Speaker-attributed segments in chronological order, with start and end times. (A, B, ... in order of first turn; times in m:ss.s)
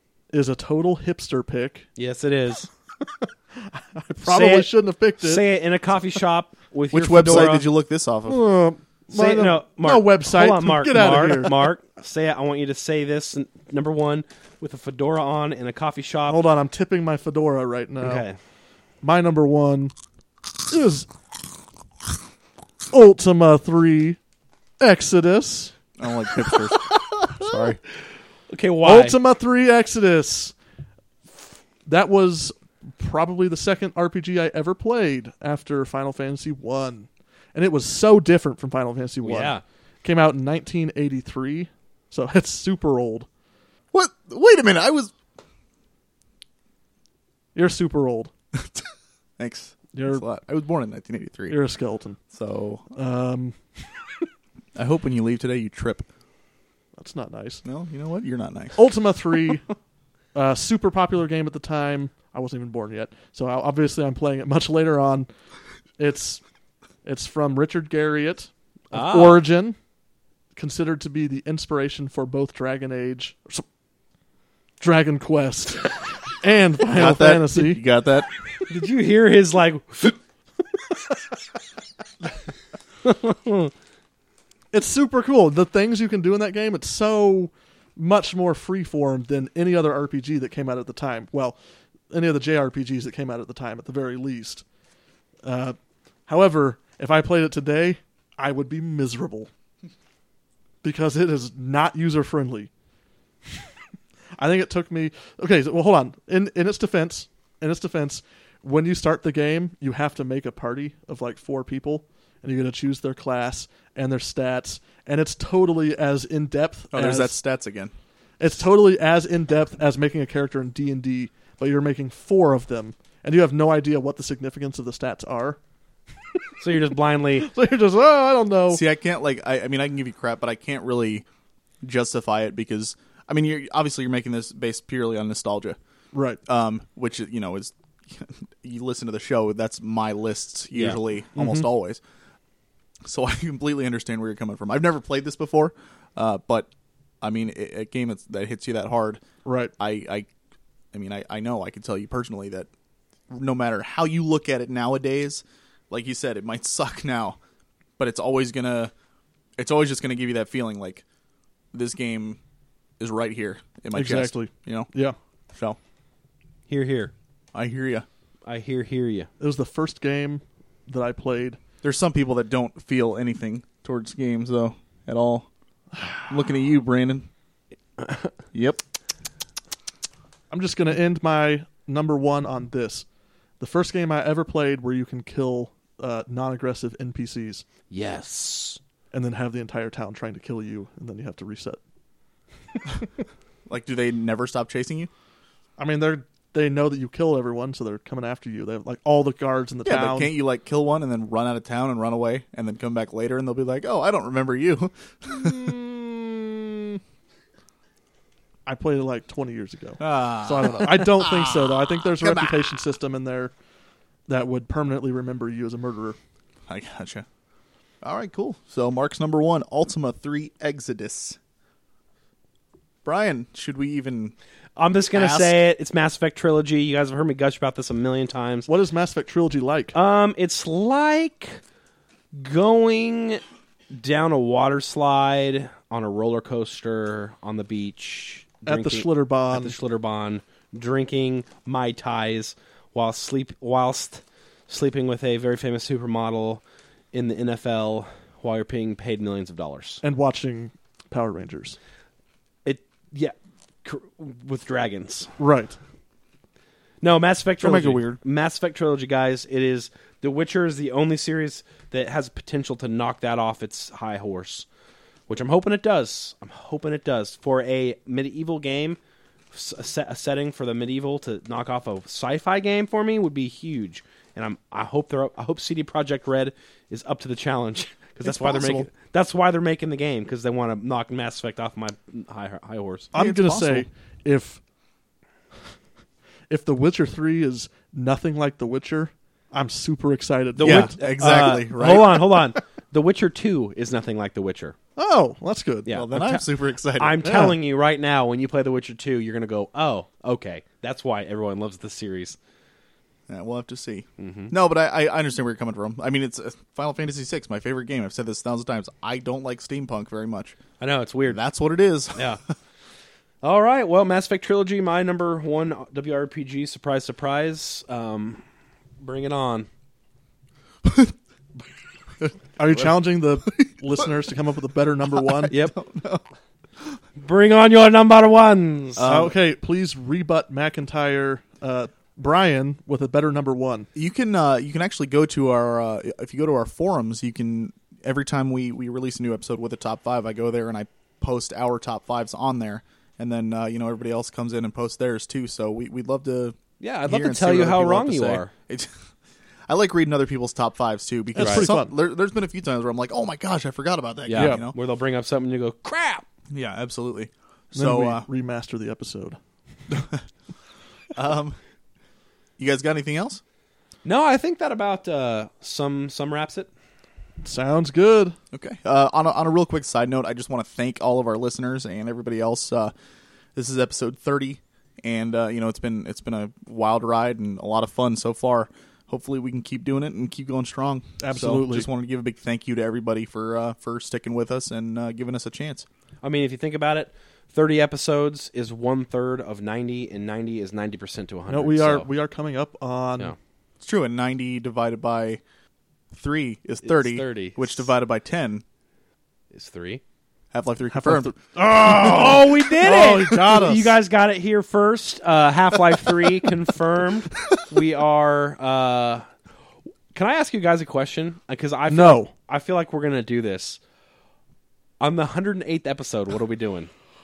0:00.3-0:01.9 A
0:02.0-0:02.7 B
0:03.6-0:05.4 A
0:04.2-0:07.7 B
0:06.9-0:08.4 C
0:08.3-0:11.7 A
0:09.1-0:16.4 B
0:16.3-0:18.2 A
0:18.0-0:18.4 B
0:19.0-0:19.9 A
0:20.7-0:21.1 A
0:22.9-0:24.2 A
0:24.8-0:25.8 A
0:26.0-0:27.8 C
0:27.4-0:27.7 B
0:28.5-0:29.2 B
0:28.8-0:30.5 A
0:31.9-0:43.3 A
0:39.2-0:39.6 B
0:43.9-0:45.1 C
0:47.6-0:48.3 A
0:48.6-0:48.9 C
0:49.4-0:51.6 C
0:49.9-0:50.2 A
0:51.5-0:52.2 A
0:52.3-0:52.9 C
0:53.0-0:53.8 A
0:54.8-0:56.1 C
0:57.0-0:57.6 A
0:57.6-0:59.5 C
0:58.8-0:59.7 A
1:00.3-1:05.3 A
1:06.0-1:06.4 A
1:07.0-1:09.8 A
1:08.9-1:09.4 B
1:10.6-1:13.6 A
1:14.8-1:17.8 A
1:16.9-1:18.3 C
1:18.7-1:20.2 B
1:23.0-1:23.7 B
1:24.7-1:31.6 A
1:32.1-1:34.6 A
1:35.4-1:35.8 A
1:36.3-1:39.5 A
1:40.8-1:42.7 A
1:44.4-1:57.4 A
1:56.9-1:57.9 C
1:58.4-2:05.6 A
2:06.6-2:07.5 B
2:07.4-2:08.8 A
2:08.7-2:11.3 C
2:11.8-2:15.8 C
2:16.1-2:16.4 A
2:16.5-2:22.0 C
2:20.8-2:21.7 A
2:23.0-2:26.7 C
2:27.2-2:29.2 C
2:29.4-2:29.7 A
2:29.8-2:30.3 C
2:30.9-2:32.7 C
2:33.3-2:37.4 C
2:38.0-2:38.9 C
2:39.6-2:41.0 C
2:41.7-2:42.4 C
2:43.0-2:44.9 C
2:43.9-2:45.2 A
2:45.5-2:45.8 C
2:46.7-2:47.1 B
2:47.5-2:48.1 C
2:48.5-2:49.3 B
2:49.4-2:51.6 A
2:51.8-2:55.5 C
2:56.3-2:57.3 C
2:58.0-2:58.3 B
2:58.5-2:58.8 C
3:00.5-3:03.1 A
3:03.6-3:07.6 A
3:07.9-3:08.8 B
3:09.1-3:11.8 A
3:13.7-3:15.1 C
3:15.8-3:20.3 A
3:19.8-3:25.8 C
3:25.3-3:27.0 A
3:28.7-3:33.5 A
3:30.0-3:32.6 C
3:34.3-3:36.2 A
3:36.7-3:37.3 C
3:38.0-3:41.4 C
3:43.0-3:44.4 C
3:44.8-3:48.7 B
3:45.1-3:45.6 C
3:48.7-3:50.0 A
3:49.9-3:51.6 B
3:52.3-4:06.6 B
3:58.7-3:59.8 A
4:07.1-4:10.0 B
4:10.0-4:11.8 A
4:12.6-4:15.3 B
4:15.4-4:15.8 A
4:17.0-4:24.7 B
4:17.6-4:18.2 C
4:25.3-4:29.0 B
4:29.5-4:43.1 B
4:38.2-4:38.9 C
4:43.1-4:43.9 C
4:43.1-4:44.6 A
4:46.5-4:51.0 A
4:50.6-4:54.8 B
4:50.6-4:52.2 C
4:55.0-4:55.9 A
4:55.9-4:56.4 B
4:55.9-4:57.2 C
4:57.0-5:02.4 B
4:57.2-4:57.6 A
5:03.3-5:10.6 C
5:04.2-5:04.5 B
5:10.8-5:11.4 B
5:11.3-5:12.5 C
5:12.2-5:12.4 B
5:13.4-5:18.4 B
5:19.0-5:19.7 B
5:20.8-5:21.1 C
5:22.2-5:24.1 C
5:22.6-5:25.5 A
5:25.1-5:26.2 C
5:25.5-5:25.8 B
5:27.2-5:29.1 B
5:29.0-5:29.4 C
5:29.0-5:33.9 A
5:34.0-5:46.6 C
5:46.8-5:48.5 B
5:47.1-5:48.9 C
5:49.7-5:54.8 C
5:51.4-5:51.9 A
5:51.4-5:51.7 B
5:54.3-5:56.2 B
5:54.3-5:54.6 A
5:56.5-5:58.2 C
5:57.7-5:59.4 A
5:59.9-6:00.2 C
6:01.1-6:01.6 C
6:02.6-6:03.4 C
6:04.0-6:06.7 B
6:07.4-6:08.4 A
6:08.5-6:12.9 C
6:13.6-6:25.9 C
6:21.2-6:21.9 A
6:26.2-6:32.1 B
6:31.5-6:33.4 A
6:33.8-6:35.4 C
6:36.1-6:38.6 C
6:36.8-6:37.9 B
6:39.5-6:40.0 B
6:40.5-6:41.3 C
6:40.9-6:44.0 A
6:41.7-6:49.3 B
6:50.1-6:53.8 B
6:51.9-6:52.3 A
6:55.0-6:56.9 B